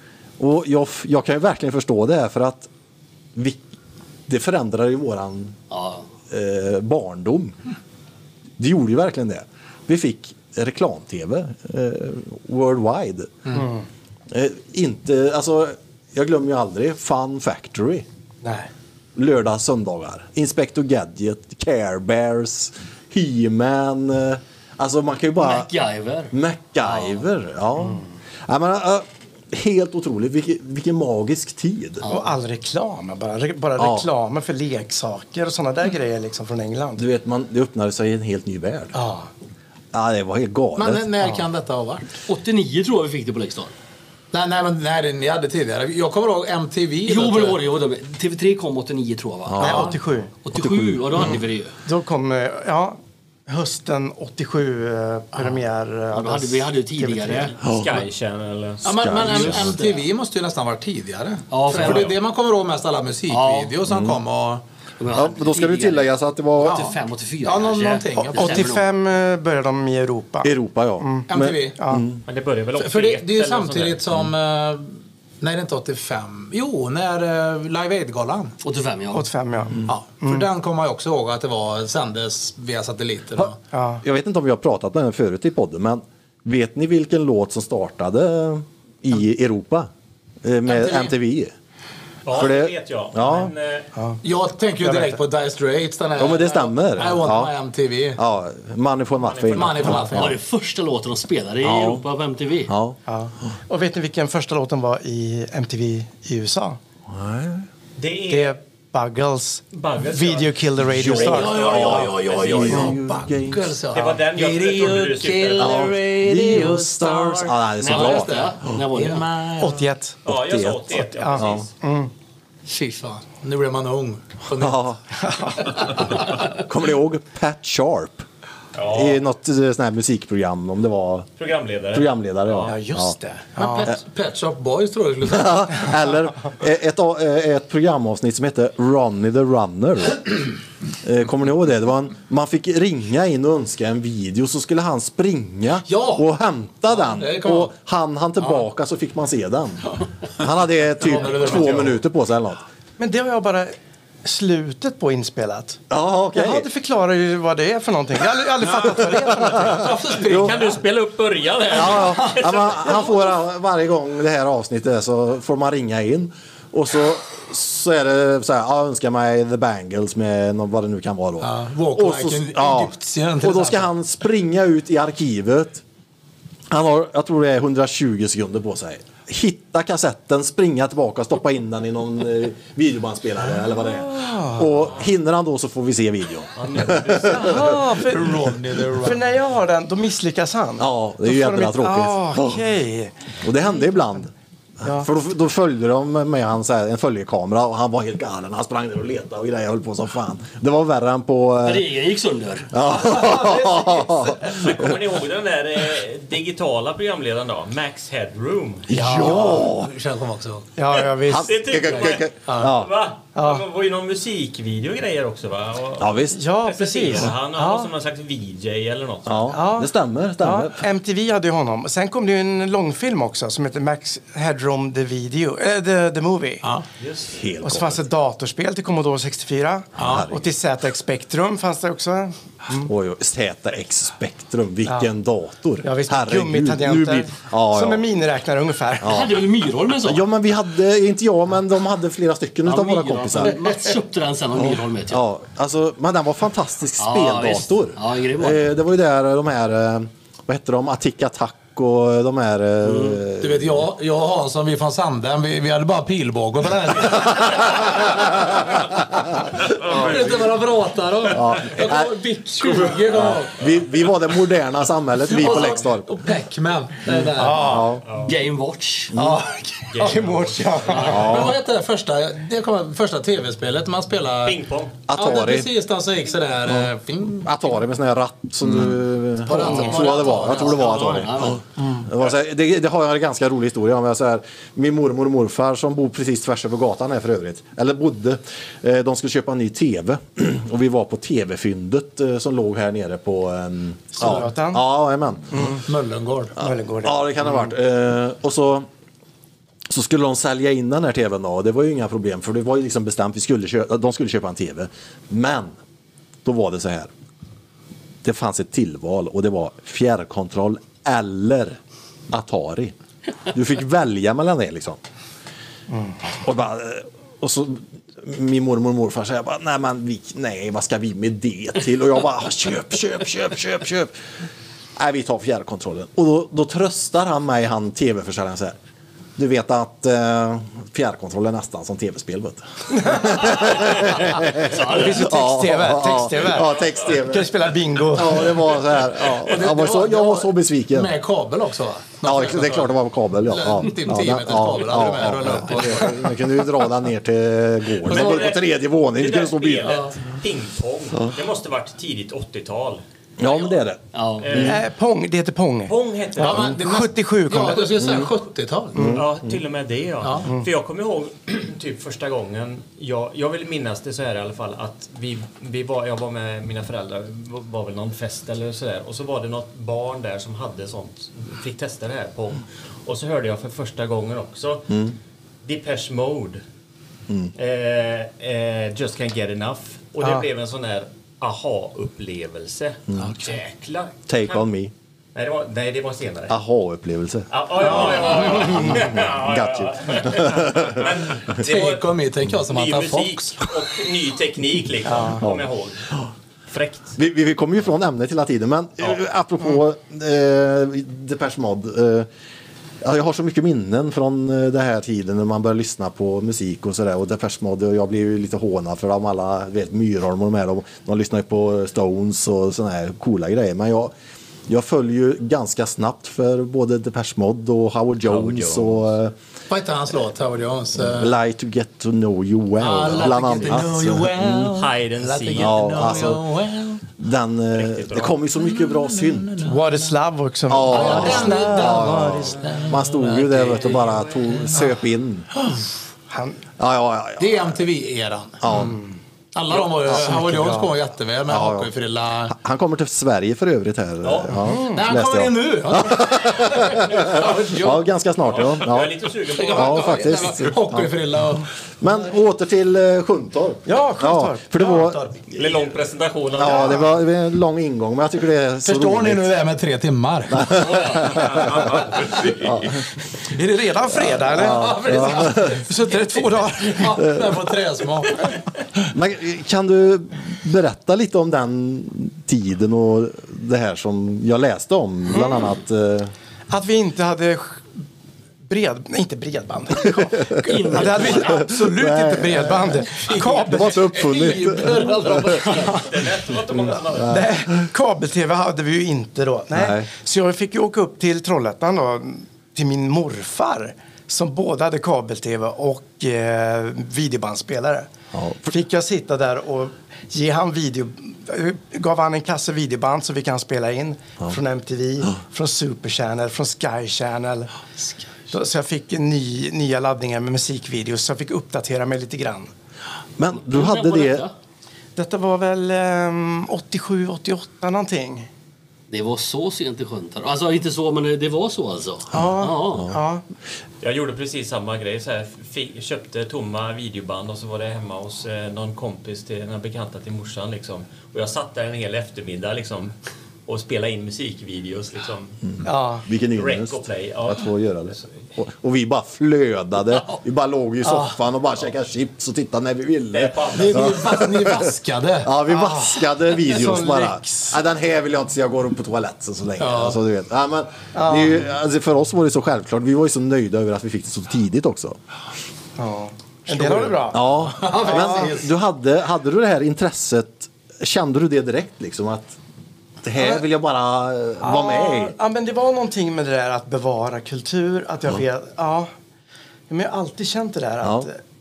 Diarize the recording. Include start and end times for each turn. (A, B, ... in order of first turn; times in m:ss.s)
0:00.4-0:02.7 A
0:03.3-0:03.6 A
0:04.3-0:05.6 A
0:05.7-0:06.1 B
0:06.3-0:07.6 A
0:08.6-0:13.6 A
0:13.5-0:13.8 C
0:14.3-0:18.0 A
0:18.4-0:18.7 C
0:19.2-0:25.7 A
0:25.4-0:27.2 B
0:26.3-0:32.0 A
0:32.0-0:37.0 C
0:33.8-0:34.1 A
0:37.0-0:39.0 A
0:38.9-0:39.3 C
0:39.9-0:41.1 A
0:40.8-0:42.1 D
0:42.3-0:43.7 B
0:44.3-0:47.6 D
0:47.0-0:51.7 B
0:49.4-0:50.0 A
0:49.6-0:50.3 C
0:50.5-0:51.4 A
0:51.8-0:57.5 C
0:56.1-0:57.6 B
0:57.6-0:58.0 A
0:57.7-0:59.5 E
0:58.8-1:04.6 D
0:58.9-0:59.7 A
0:59.3-1:00.0 B
1:01.5-1:02.2 B
1:03.3-1:03.8 B
1:03.8-1:04.2 A
1:05.0-1:08.9 B
1:05.1-1:06.9 A
1:06.6-1:06.9 D
1:07.4-1:08.7 D
1:08.2-1:12.0 C
1:10.4-1:12.2 A
1:11.3-1:11.8 D
1:12.2-1:14.0 E
1:12.8-1:18.5 D
1:18.6-1:19.3 B
1:19.1-1:20.4 C
1:19.9-1:23.6 D
1:23.7-1:24.0 C
1:24.0-1:29.9 A
1:30.4-1:31.5 A
1:30.6-1:31.1 D
1:32.2-1:33.9 E
1:32.3-1:33.5 A
1:34.2-1:38.2 D
1:34.8-1:35.2 C
1:36.2-1:37.5 A
1:38.2-1:40.4 A
1:39.2-1:39.8 E
1:39.5-1:40.4 D
1:40.0-1:42.7 B
1:41.6-1:42.0 A
1:42.7-1:43.0 A
1:43.1-1:46.8 C
1:47.1-1:47.6 A
1:48.0-1:48.6 E
1:48.3-1:52.0 C
1:49.7-1:52.8 E
1:50.8-1:53.7 A
1:51.4-1:59.9 D
1:52.7-1:52.9 C
1:53.9-1:55.9 E
1:55.6-1:58.4 A
1:57.8-1:59.3 B
1:59.6-2:00.2 C
2:00.2-2:01.6 A
2:00.2-2:01.7 E
2:01.0-2:02.1 C
2:02.7-2:04.9 D
2:04.5-2:05.0 A
2:05.3-2:06.0 C
2:06.4-2:08.2 A
2:08.7-2:09.2 E
2:08.9-2:11.3 A
2:11.4-2:12.8 E
2:11.9-2:13.2 A
2:12.7-2:13.9 C
2:13.6-2:15.8 D
2:15.2-2:32.6 A
2:25.9-2:26.2 D
2:26.9-2:27.7 D
2:31.0-2:32.0 D
2:33.0-2:35.8 C
2:35.9-2:36.7 A
2:36.3-2:39.9 C
2:38.8-2:39.7 A
2:39.7-2:40.7 D
2:40.2-2:43.1 E
2:40.2-2:40.5 A
2:41.7-2:55.8 A
2:51.4-2:53.9 D
2:56.7-3:07.8 A
3:03.8-3:04.7 C
3:06.6-3:07.8 E
3:07.4-3:08.4 C
3:08.0-3:09.2 D
3:09.0-3:13.2 C
3:10.8-3:12.6 A
3:13.4-3:21.9 A
3:14.8-3:15.1 C
3:21.6-3:22.7 B
3:22.7-3:24.9 A
3:23.1-3:23.8 D
3:24.4-3:28.9 E
3:28.9-3:29.9 A
3:28.9-3:30.7 D
3:29.0-3:29.6 C
3:30.8-3:31.9 C
3:31.3-3:32.9 A
3:31.3-3:39.5 E
3:32.4-3:32.7 D
3:33.4-3:33.6 C
3:36.0-3:36.4 A
3:36.3-3:37.9 C
3:39.2-3:40.8 A
3:39.5-3:46.7 C
3:47.0-3:47.4 E
3:47.3-3:48.0 A
3:47.6-3:52.9 C
3:50.0-3:50.2 D
3:50.0-3:50.5 A
3:52.8-3:58.0 A
3:55.8-3:59.3 C
3:59.0-3:59.4 A
3:59.0-4:00.2 B
4:00.0-4:03.6 A
4:02.6-4:05.2 B
4:04.7-4:13.8 A
4:07.0-4:08.7 B
4:12.8-4:13.2 B
4:13.4-4:18.1 D
4:17.5-4:18.8 A
4:19.6-4:23.6 D
4:19.8-4:20.4 A
4:21.3-4:26.1 A
4:25.2-4:27.9 D
4:27.4-4:28.0 A
4:27.5-4:27.7 C
4:28.1-4:28.3 E
4:28.1-4:29.2 B
4:29.1-4:29.4 A
4:29.2-4:30.1 D
4:29.9-4:31.3 E
4:30.0-4:31.4 C
4:31.0-4:31.6 A
4:31.2-4:34.6 D
4:34.4-4:35.0 E
4:35.1-4:35.7 A
4:35.1-4:37.5 D
4:37.4-4:55.8 A
4:39.4-4:41.3 D
4:39.6-4:41.6 B
4:54.1-4:54.8 C
4:55.5-4:55.8 C
4:55.8-4:56.5 D
4:56.6-4:57.7 C
4:56.6-4:58.9 A
4:59.9-5:05.7 A
5:06.4-5:07.1 A
5:08.2-5:11.8 A
5:12.3-5:12.9 A
5:13.5-5:15.0 A
5:15.9-5:16.2 C
5:16.4-5:24.1 A
5:25.0-5:28.8 A
5:29.4-5:37.5 A
5:33.0-5:33.5 C
5:33.6-5:35.2 B
5:34.8-5:38.7 C
5:38.1-5:41.1 A
5:39.4-5:46.2 D
5:42.2-5:50.0 A
5:48.0-5:53.5 E
5:53.4-5:54.8 A
5:54.1-5:54.5 B
5:54.4-5:54.8 E
5:54.6-5:58.2 C
5:55.8-5:56.7 E
5:56.4-5:59.0 D
5:58.0-5:58.3 A
5:58.9-5:59.6 A
5:58.9-5:59.2 C
5:59.1-6:15.0 E
6:00.2-6:00.5 D
6:14.9-6:15.1 A
6:15.6-6:16.6 E
6:17.6-6:24.6 E
6:23.2-6:23.5 D
6:24.3-6:24.9 A
6:25.3-6:26.6 E
6:26.5-6:31.1 A
6:27.5-6:32.1 E
6:27.9-6:28.7 C
6:31.5-6:33.6 D
6:32.7-6:36.0 E
6:35.0-6:35.4 C
6:35.4-6:36.3 A
6:36.7-6:37.1 E
6:37.2-6:42.3 A
6:43.0-6:54.1 A
6:54.7-6:59.3 A
6:58.3-6:59.0 E
6:59.7-7:01.3 D
7:01.0-7:04.7 A
7:02.8-7:07.0 D
7:04.7-7:06.2 E
7:05.6-7:06.4 A
7:07.2-7:09.6 A
7:07.7-7:08.4 E
7:08.7-7:10.1 D
7:09.6-7:12.7 C
7:10.7-7:15.5 A
7:10.9-7:14.8 D
7:16.3-7:16.6 C
7:16.8-7:17.8 A
7:17.4-7:18.6 D
7:18.6-7:19.0 A
7:18.7-7:19.2 C
7:19.5-7:22.5 D
7:20.0-7:20.9 C
7:21.5-7:21.9 A
7:22.5-7:31.1 A
7:24.2-7:24.6 E
7:24.6-7:25.0 C
7:24.9-7:28.0 D
7:28.5-7:30.4 E
7:29.5-7:31.7 D
7:32.0-7:35.6 A
7:33.8-7:35.1 C
7:34.8-7:35.3 D
7:35.5-7:37.1 E
7:36.5-7:39.5 A
7:38.8-7:40.8 D
7:40.5-7:42.0 A
7:42.6-7:42.9 A
7:43.4-7:47.4 C
7:44.3-7:45.8 A
7:44.5-7:48.4 D
7:49.1-7:56.3 A
7:56.7-7:57.8 C
7:58.6-8:04.1 C
8:00.3-8:05.6 A
8:00.6-8:01.6 B
8:00.7-8:01.0 D
8:03.1-8:06.0 D
8:05.7-8:07.4 E
8:07.1-8:07.6 A
8:07.3-8:18.1 C
8:09.7-8:10.1 A
8:18.3-8:18.7 A
8:18.6-8:27.7 C
8:28.5-8:32.7 C
8:33.4-8:34.4 A
8:33.5-8:34.5 B
8:35.2-8:38.5 C
8:39.1-8:43.1 B
8:42.3-8:43.4 C
8:44.0-8:53.1 E
8:53.7-8:55.6 E
8:55.8-8:56.2 C
8:56.2-9:04.9 A
8:56.6-8:58.2 E
9:01.0-9:01.3 C
9:03.3-9:04.1 E
9:03.7-9:05.5 D
9:05.4-9:15.2 A
9:05.6-9:07.8 C
9:09.8-9:10.2 D
9:11.1-9:11.6 C
9:16.0-9:18.5 C
9:16.7-9:18.7 D
9:17.3-9:22.6 A
9:23.2-9:25.3 A
9:23.4-9:23.6 C
9:24.6-9:29.1 C
9:29.9-9:31.4 C
9:31.0-9:31.3 A